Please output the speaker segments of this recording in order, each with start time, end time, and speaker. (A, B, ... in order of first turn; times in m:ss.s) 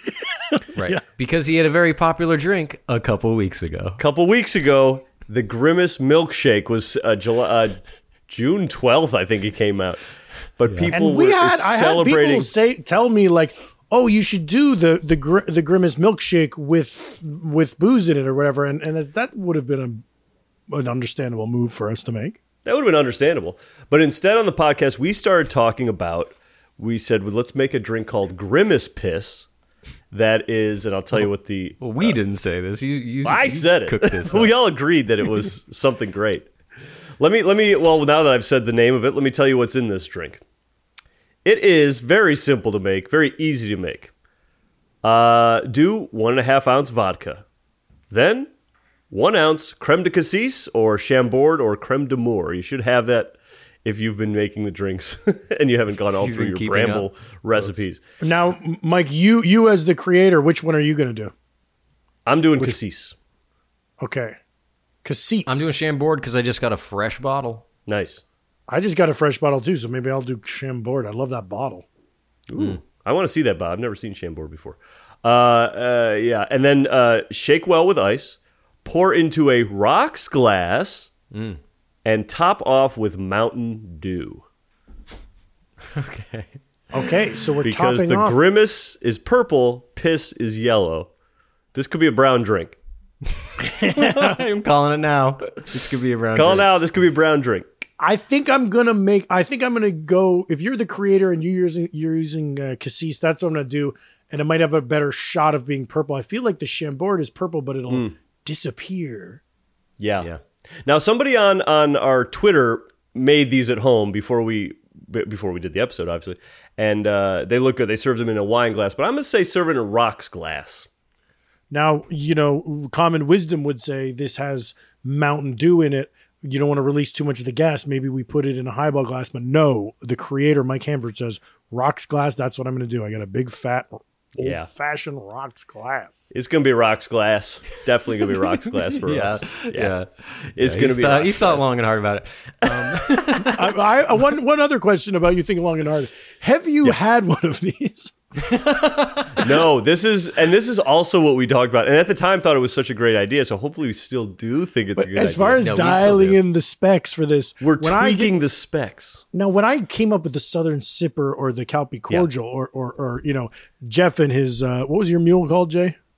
0:00.8-0:04.0 A
0:04.0-0:10.0 B
0:10.6-0:12.5 B
0:10.7-0:10.9 A
0:10.9-0:20.0 C
0:20.7-0:22.4 C
0:22.6-0:29.5 B
0:30.1-0:32.2 B
0:31.8-0:34.5 A
0:33.2-0:36.5 B
0:37.2-0:40.4 B
0:41.4-0:44.1 B
0:45.0-0:47.4 B
0:48.1-0:48.5 B
0:49.1-0:58.0 B
0:56.2-0:57.8 A
0:58.2-1:01.3 C
1:02.3-1:03.2 B
1:04.0-1:04.4 C
1:05.0-1:05.7 C
1:05.5-1:07.6 A
1:07.9-1:08.2 B
1:08.7-1:11.8 C
1:12.5-1:21.1 B
1:21.3-1:21.6 A
1:22.0-1:24.4 B
1:25.9-1:26.6 A
1:26.9-1:28.4 C
1:27.6-1:31.1 B
1:31.7-1:32.8 B
1:33.8-1:34.4 C
1:33.8-1:36.7 A
1:36.4-1:37.7 B
1:38.0-1:49.4 C
1:47.9-1:48.1 B
1:50.0-1:50.3 B
1:50.8-2:00.9 B
2:01.7-2:16.3 C
2:14.4-2:14.7 B
2:16.3-2:19.9 B
2:19.0-2:23.6 A
2:20.6-2:21.6 B
2:23.4-2:28.1 C
2:28.4-2:29.4 A
2:29.4-2:35.6 B
2:35.0-2:38.4 C
2:35.6-2:36.4 A
2:37.6-2:39.2 B
2:39.3-2:46.0 C